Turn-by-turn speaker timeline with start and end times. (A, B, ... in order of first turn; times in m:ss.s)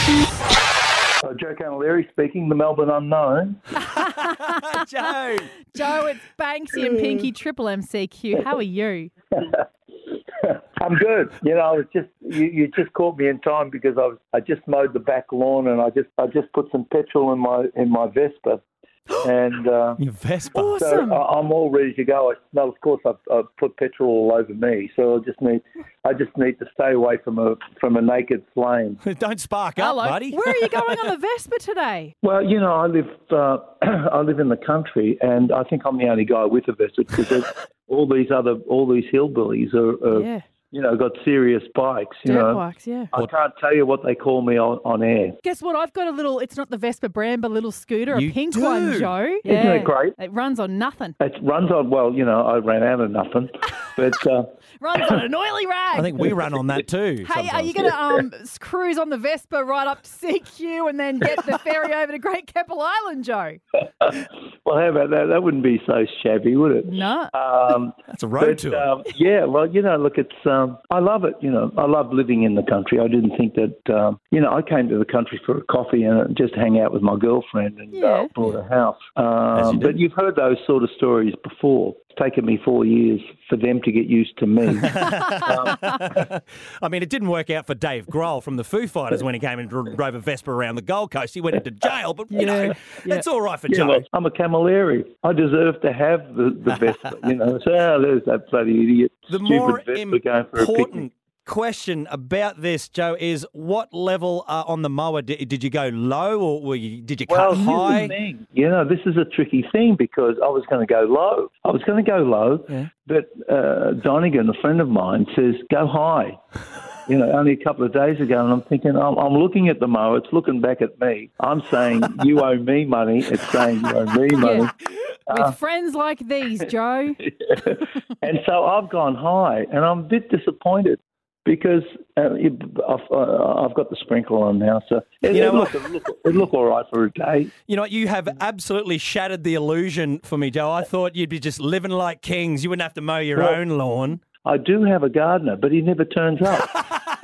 0:01.2-0:03.7 A
0:03.9-0:04.7 B
0:03.9-0:05.6 C
0:05.7-0:09.1 B
0:10.4-0:18.6 A
0:19.2-0:20.0 A
0:20.0-0:20.9 C
0:20.5-0:21.2 B
0:20.7-0:29.0 A
0:29.0-0:31.0 C
0:29.8-0:32.1 B
0:32.2-0:42.6 A
0:40.1-0:40.4 B
0:42.2-0:43.1 B
0:43.1-0:45.4 A
0:45.4-0:51.2 B
0:48.1-0:49.1 C
0:49.4-0:50.2 A
0:51.2-0:55.2 A
0:54.8-0:56.4 B
0:55.9-0:57.9 C
0:57.2-1:03.6 B
1:04.0-1:26.2 A
1:06.8-1:07.3 B
1:08.1-1:08.9 C
1:17.9-1:18.3 B
1:19.5-1:19.9 C
1:25.0-1:34.0 C
1:32.3-1:33.2 B
1:33.7-1:41.0 A
1:39.3-1:48.1 C
1:47.3-1:56.4 A
1:47.5-1:48.1 B
1:57.0-2:04.7 A
2:04.4-2:04.7 B
2:05.3-2:05.5 A
2:05.3-2:07.3 B
2:07.2-2:17.5 A
2:15.3-2:15.8 C
2:17.7-2:24.2 C
2:23.3-2:23.6 A
2:24.4-2:26.7 A
2:26.7-2:27.0 C